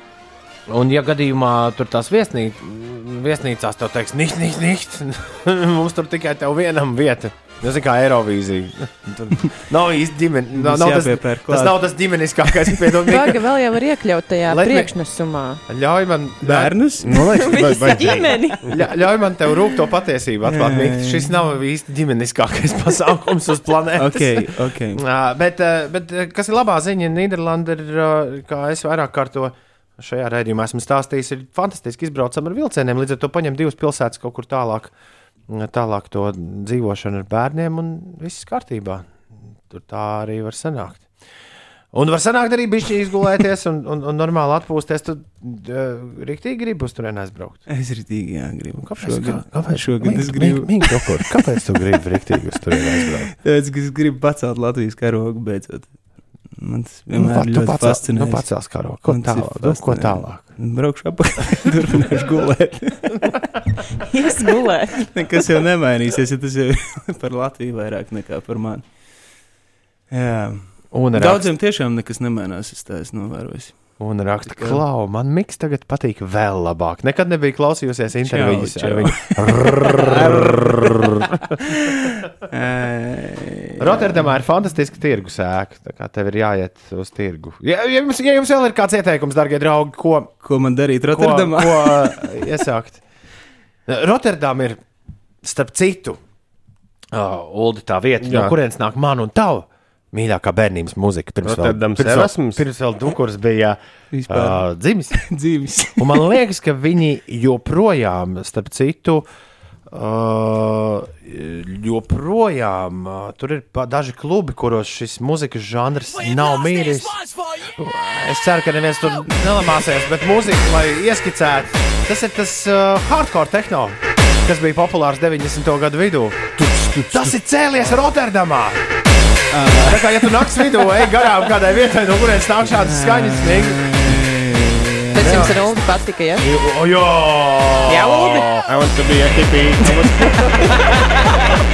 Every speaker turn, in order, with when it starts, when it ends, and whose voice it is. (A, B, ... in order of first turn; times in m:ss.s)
0:00.7-0:13.4 A
0:10.5-0:11.9 B
0:12.6-0:12.9 B
0:13.0-0:15.6 C
0:14.5-0:14.9 A
0:15.7-0:16.7 A
0:16.4-0:17.5 B
0:17.0-0:18.8 D
0:17.2-0:18.8 C
0:18.6-0:34.9 A
0:20.4-0:21.4 B
0:24.0-0:25.0 B
0:35.5-0:39.1 A
0:39.7-0:41.1 A
0:41.9-0:47.6 A
0:47.7-0:51.4 B
0:48.8-0:53.3 A
0:53.0-0:55.9 B
0:56.6-1:03.9 B
0:57.1-1:00.5 A
1:04.0-1:05.1 C
1:04.9-1:08.8 B
1:10.1-1:14.8 B
1:10.9-1:11.5 A
1:14.0-1:21.6 A
1:18.2-1:24.3 B
1:23.8-1:30.3 A
1:30.4-1:32.2 B
1:31.1-1:33.0 A
1:33.9-1:34.8 A
1:35.4-1:36.2 A
1:37.1-1:45.2 A
1:38.2-1:38.6 D
1:41.4-1:42.6 D
1:44.1-1:46.3 B
1:46.0-1:49.2 A
1:49.9-2:08.8 A
2:06.6-2:07.2 D
2:09.5-2:11.3 B
2:09.7-2:14.0 A
2:12.6-2:15.5 B
2:15.1-2:16.4 C
2:15.2-2:15.7 A
2:16.4-2:18.6 A
2:17.8-2:18.6 C
2:18.6-2:20.9 D
2:20.4-2:21.4 C